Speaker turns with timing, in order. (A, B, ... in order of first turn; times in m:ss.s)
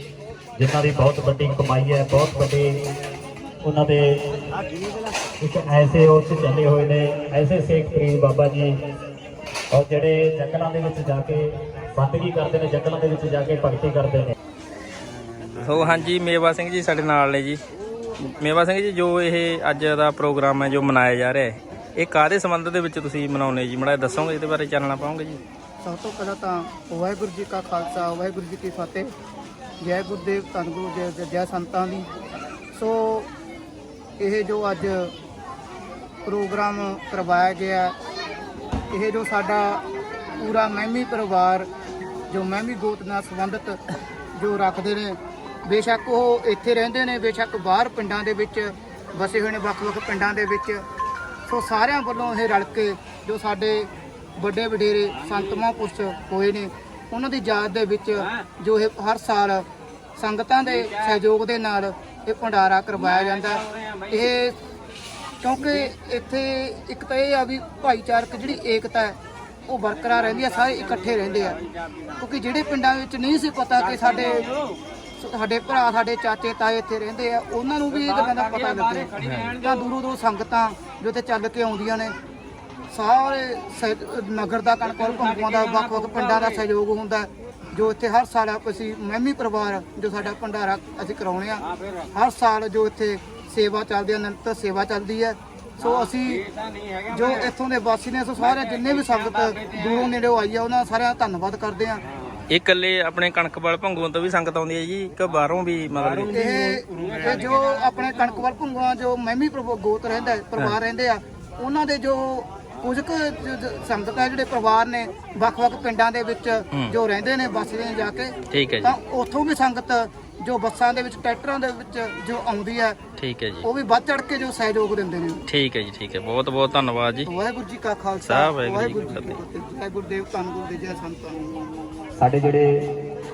0:00.6-0:02.9 A
0:03.6-0:04.3 A
0:05.4-0:08.8 A
0:09.7-0:14.3 A
0:15.6-0:17.6 B
0:18.2-0:25.4 B
0:25.8-0:29.1 C
0:29.8-0:32.1 C
0:32.7-0:33.3 C
0:34.2-0:35.1 C
0:36.2-0:37.9 C
0:38.9-0:39.8 C
0:40.4-0:41.7 C
0:42.3-0:43.8 C
0:44.4-0:50.8 C
0:51.5-0:59.6 C
1:00.2-1:04.6 C
1:05.4-1:11.6 C
1:12.2-1:14.5 C
1:15.2-1:22.1 C
1:19.2-1:19.6 B
1:22.9-1:36.5 C
1:37.0-1:42.0 C
1:42.5-1:46.4 B
1:46.3-2:03.0 C
1:58.5-1:58.9 B
2:03.2-2:03.7 B
2:03.6-2:05.4 C
2:05.5-2:07.3 B
2:07.2-2:11.7 C
2:08.2-2:09.4 B
2:12.2-2:13.0 A